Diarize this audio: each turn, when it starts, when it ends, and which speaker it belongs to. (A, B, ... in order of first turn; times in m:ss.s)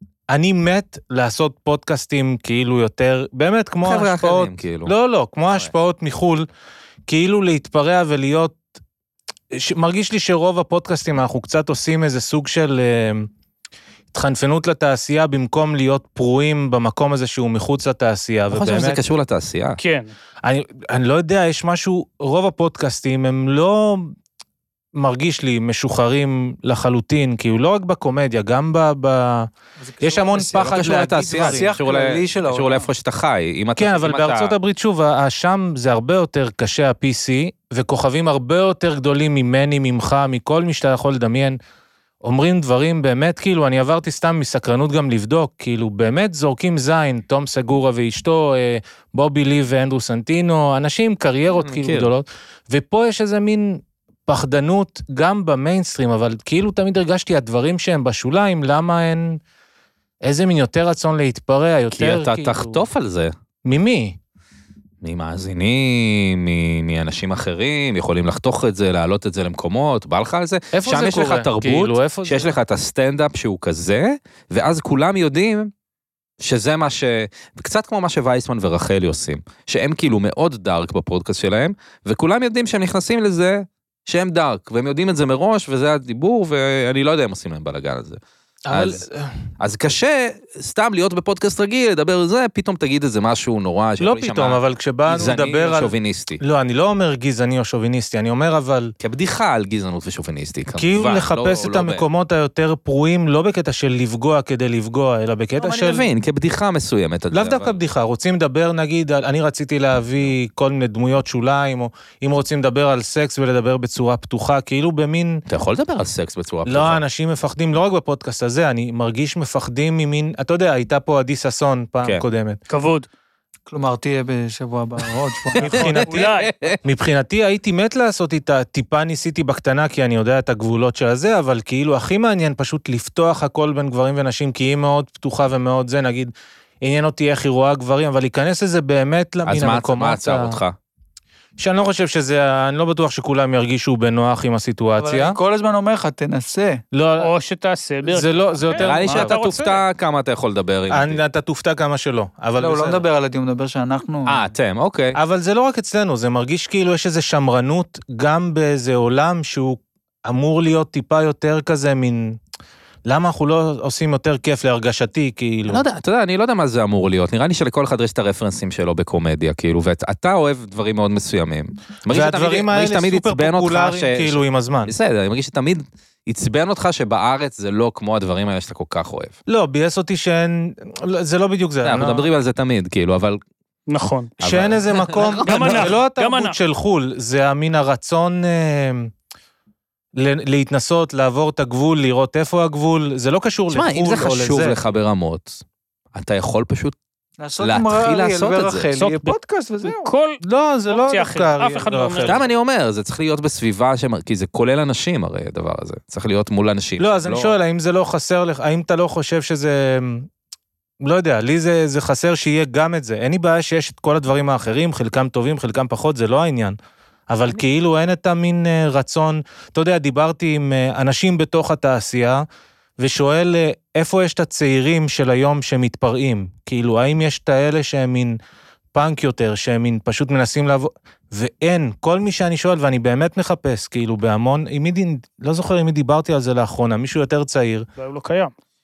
0:00.3-0:06.5 A
0:03.8-0:04.9 B
0:07.1-0:08.6 A
0:09.5-0:13.3 A
0:14.1-0:19.0 A
0:18.5-0:19.8 B
0:19.8-0:20.1 C
0:20.4-0:24.2 A
0:25.0-0:29.5 A
0:29.8-0:32.9 D
0:30.0-0:31.7 A
0:30.7-0:34.6 B
0:33.8-0:41.6 A
0:42.2-0:59.4 A
0:51.5-0:52.1 B
1:00.2-1:02.8 A
1:01.9-1:03.3 B
1:03.7-1:04.2 A
1:05.0-1:15.7 B
1:10.7-1:12.5 A
1:16.4-1:28.2 B
1:28.7-1:29.3 A
1:28.7-1:29.0 B
1:29.6-1:36.4 B
1:34.0-1:38.9 A
1:39.0-1:42.0 B
1:40.8-1:46.1 A
1:45.6-1:47.8 B
1:47.3-1:55.4 A
1:55.5-1:57.0 B
1:56.7-2:02.6 A
2:02.7-2:03.1 C
2:03.7-2:05.8 D
2:05.6-2:20.6 A
2:05.6-2:06.8 B
2:05.8-2:06.8 C
2:19.5-2:20.8 B
2:21.6-2:25.4 A
2:25.0-2:26.8 D
2:26.9-2:27.3 A
2:27.2-2:29.8 C
2:28.1-2:29.4 A
2:28.8-2:31.2 B
2:30.9-2:33.0 A
2:32.6-2:34.4 D
2:34.3-2:35.2 B
2:35.2-2:42.4 A
2:43.1-2:45.8 A
2:45.7-2:59.4 B
2:52.1-2:54.9 A
2:59.5-3:02.3 A
3:01.8-3:03.4 B
3:03.9-3:04.3 C
3:04.4-3:06.0 B
3:04.4-3:09.1 A
3:05.4-3:06.6 C
3:10.2-3:14.8 A
3:13.7-3:15.6 B
3:16.2-3:17.0 B
3:17.4-3:20.1 D
3:17.6-3:19.2 B
3:19.8-3:22.5 C
3:20.4-3:22.4 A
3:22.2-3:27.6 B
3:27.0-3:30.3 A
3:31.0-3:36.8 A
3:37.3-3:42.4 A
3:43.0-3:48.4 A
3:48.9-3:57.8 A
3:58.0-3:58.5 C